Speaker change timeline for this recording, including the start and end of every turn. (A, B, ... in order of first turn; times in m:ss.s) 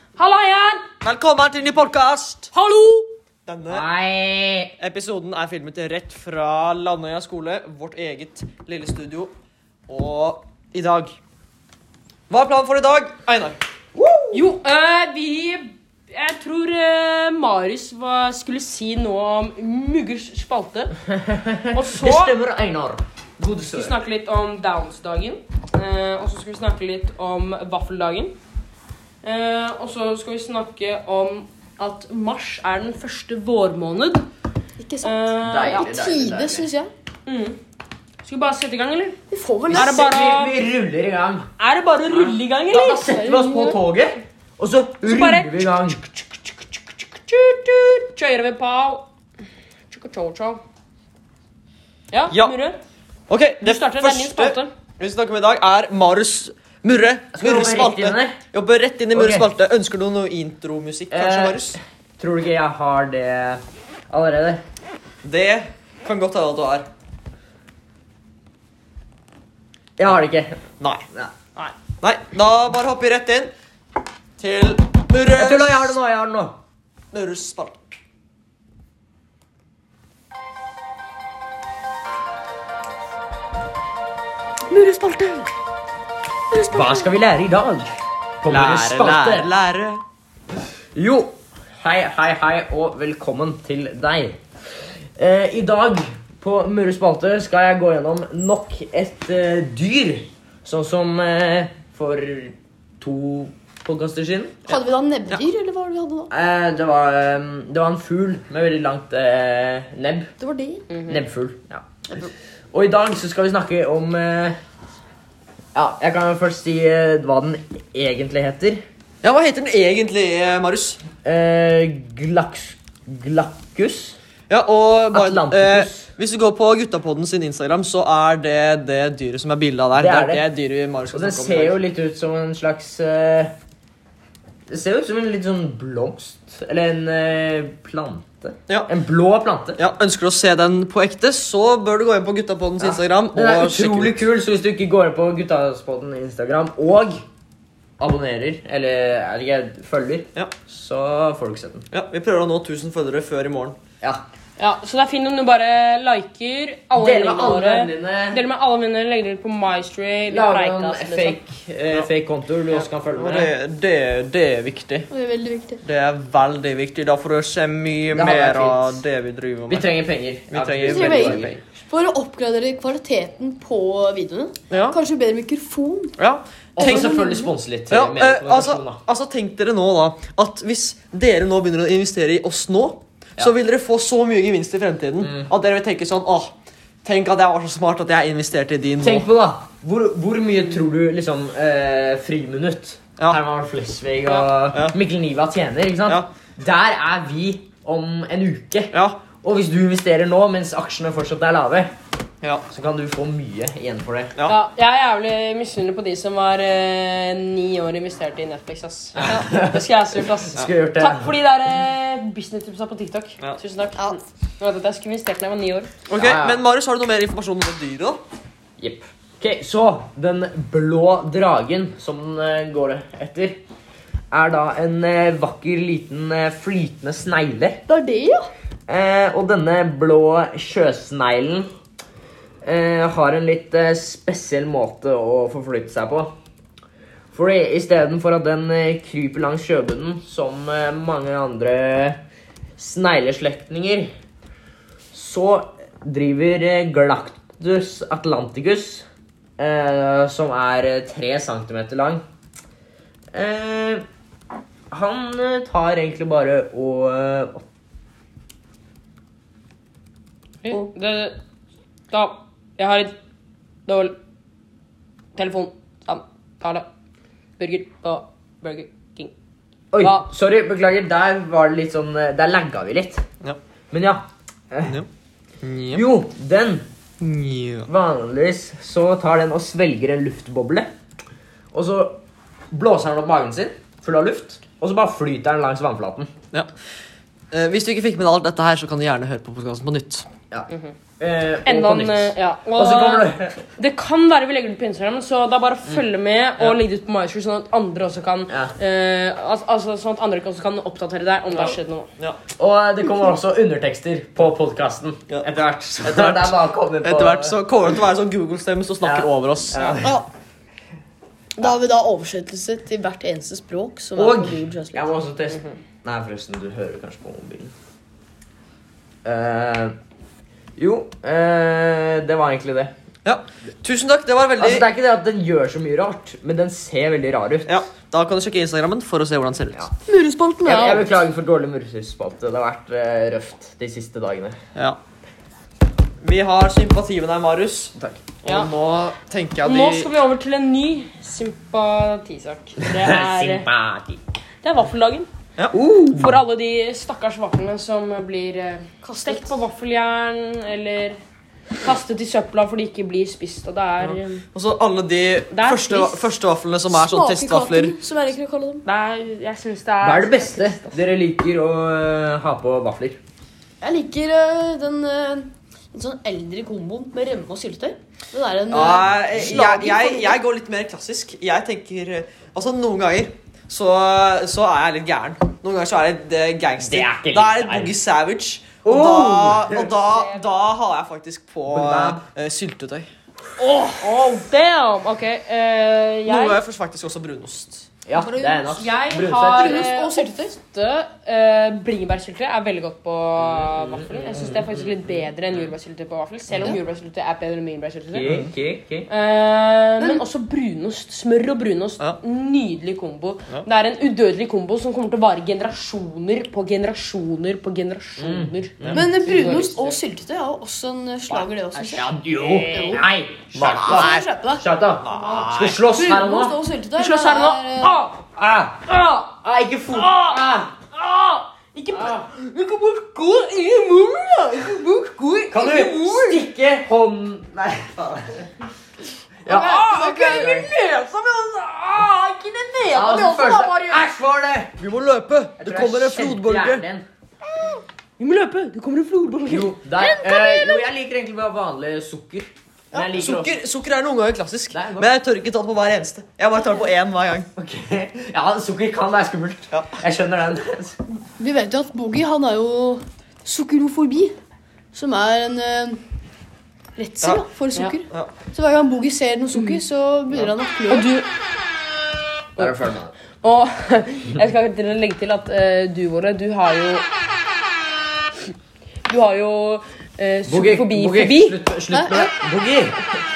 0:00.2-0:00.8 A
0:01.0-0:02.5 B
0:02.5-0:03.1 A
0:03.4-0:03.8 B
0:03.7-0:04.7 C
0:04.8-0:09.3 B
0:09.9-0:11.1 B
0:12.3-0:13.6 B
0:14.0-0:14.4 C
0:14.3-0:21.0 A
0:21.2-0:24.0 C
0:21.7-0:22.3 A
0:23.7-0:28.4 A
0:29.2-0:34.3 A
0:34.8-0:36.9 D
0:35.0-0:35.8 A
0:35.4-0:36.7 C
0:37.2-0:37.6 A
0:38.2-0:39.2 A
0:39.3-0:39.9 D
0:39.7-0:41.5 C
0:39.7-0:40.6 A
0:41.6-0:43.1 A
0:42.7-0:46.0 C
0:43.1-0:43.8 D
0:45.0-0:49.1 A
0:49.9-0:50.6 A
0:52.1-0:52.8 A
0:53.3-1:01.8 B
0:53.6-0:54.7 A
0:57.3-0:58.4 C
0:59.1-0:59.4 C
1:01.1-1:04.6 C
1:05.2-1:06.9 B
1:10.0-1:10.6 C
1:10.8-1:11.0 B
1:11.6-1:13.5 B
1:14.4-1:16.0 B
1:15.3-1:16.6 C
1:17.1-1:17.8 B
1:26.5-1:27.1 D
1:26.7-1:27.9 C
1:28.4-1:29.5 C
1:28.5-1:30.0 B
1:31.0-1:34.4 C
1:35.2-1:44.6 C
1:44.7-1:46.3 D
1:46.3-1:50.3 C
1:50.4-1:50.9 D
1:50.9-1:51.2 A
1:51.1-1:51.8 C
1:52.7-1:54.6 C
1:55.7-1:58.8 C
1:59.2-2:01.0 B
2:01.2-2:04.2 C
2:04.5-2:11.8 B
2:05.1-2:06.1 C
2:09.9-2:10.4 C
2:11.1-2:13.5 C
2:14.7-2:19.8 C
2:19.8-2:24.2 B
2:22.8-2:27.2 C
2:28.0-2:31.8 C
2:31.9-2:33.8 B
2:34.6-2:41.4 A
2:36.9-2:38.4 C
2:40.3-2:43.5 C
2:43.2-2:45.1 B
2:45.1-2:45.8 D
2:45.8-2:49.9 B
2:48.1-2:49.0 C
2:49.7-2:51.5 C
2:50.5-2:51.6 B
2:50.8-2:56.2 D
2:54.7-2:55.0 B
2:56.2-2:57.1 B
2:56.8-2:59.0 C
2:56.8-2:57.5 D
2:57.9-3:06.5 B
3:05.2-3:05.5 C
3:07.0-3:09.3 B
3:09.0-3:21.9 C
3:14.3-3:15.0 B
3:18.9-3:19.2 B
3:22.7-3:24.3 C
3:24.4-3:35.9 A
3:29.2-3:29.8 C
3:30.4-3:31.3 C
3:36.1-3:38.2 B
3:36.1-3:36.6 C
3:38.8-3:43.6 C
3:44.3-3:47.8 C
3:47.9-3:48.5 D
3:48.9-3:51.7 C
3:52.6-3:56.3 C
3:57.3-4:02.2 C
4:02.8-4:04.1 C
4:05.1-4:09.1 C
4:09.6-4:12.2 C
4:13.3-4:14.0 C
4:14.9-4:17.6 C
4:20.6-4:21.4 A
4:22.1-4:23.1 A
4:23.8-4:24.2 A
4:25.3-4:26.9 A
4:27.6-4:29.3 A
4:29.9-4:33.2 C
4:30.0-4:30.3 A
4:33.9-4:35.0 C
4:35.6-4:36.0 B
4:35.9-4:36.8 C
4:37.2-4:37.9 B
4:37.9-4:40.9 C
4:41.7-4:42.2 C
4:42.7-4:46.3 C
4:47.5-4:50.3 B
4:50.5-4:53.6 C
4:51.6-5:02.1 A
4:58.5-4:58.7 C
5:02.6-5:07.6 C
5:06.0-5:10.1 B
5:09.0-5:10.2 C
5:10.0-5:10.2 D
5:11.6-5:15.1 D
5:14.2-5:17.7 C
5:19.2-5:20.0 C
5:20.8-5:22.9 C
5:23.2-5:24.9 B
5:24.6-5:27.7 C
5:27.6-5:29.9 B
5:30.0-5:31.2 D
5:30.6-5:34.6 C
5:36.2-5:40.1 B
5:38.4-5:38.7 A
5:39.6-5:43.7 A
5:42.8-5:44.2 C
5:44.6-5:45.3 A
5:45.7-5:46.4 C
5:46.1-5:51.2 A
5:49.0-5:49.6 D
5:51.8-5:54.4 A
5:54.0-5:57.9 B
5:55.5-5:56.3 A
5:56.9-5:58.8 D
5:58.8-6:01.0 A
6:00.0-6:03.2 C
6:03.8-6:10.4 D
6:08.7-6:23.1 B
6:16.8-6:17.9 C
6:18.8-6:19.9 C
6:20.0-6:20.4 A
6:21.7-6:22.2 C
6:23.6-6:26.6 A
6:26.2-6:27.9 B
6:28.0-6:29.9 C
6:28.1-6:38.3 A
6:29.5-6:30.5 D
6:33.4-6:35.3 C
6:36.5-6:36.8 C
6:38.1-6:39.1 C
6:38.2-6:38.5 B
6:39.1-6:50.0 A
6:48.2-6:49.7 C
6:48.9-6:52.1 D
6:51.4-6:56.6 C
6:52.4-6:53.0 A
6:52.6-6:53.0 D
6:53.5-6:54.1 B
6:53.8-6:58.0 D
6:55.0-6:55.8 B
6:57.0-6:58.3 A
6:58.4-7:00.7 C
6:58.9-6:59.2 A
6:59.9-7:05.4 A
7:05.4-7:06.2 D
7:05.5-7:08.5 C
7:06.0-7:06.3 A
7:09.4-7:10.7 C
7:09.4-7:10.5 D
7:09.4-7:14.0 A
7:12.9-7:14.7 C
7:14.8-7:16.8 B
7:15.6-7:17.0 C
7:18.2-7:20.3 A
7:19.4-7:23.6 C
7:23.0-7:27.5 B
7:24.7-7:25.1 C
7:27.6-7:31.0 C
7:31.4-7:34.4 D
7:34.9-7:36.0 D
7:37.0-7:41.1 D
7:39.5-7:39.8 A
7:40.9-7:41.3 A
7:42.6-7:43.1 C
7:43.4-7:47.0 A
7:49.0-7:51.6 A
7:50.5-7:53.0 C
7:51.9-7:52.3 D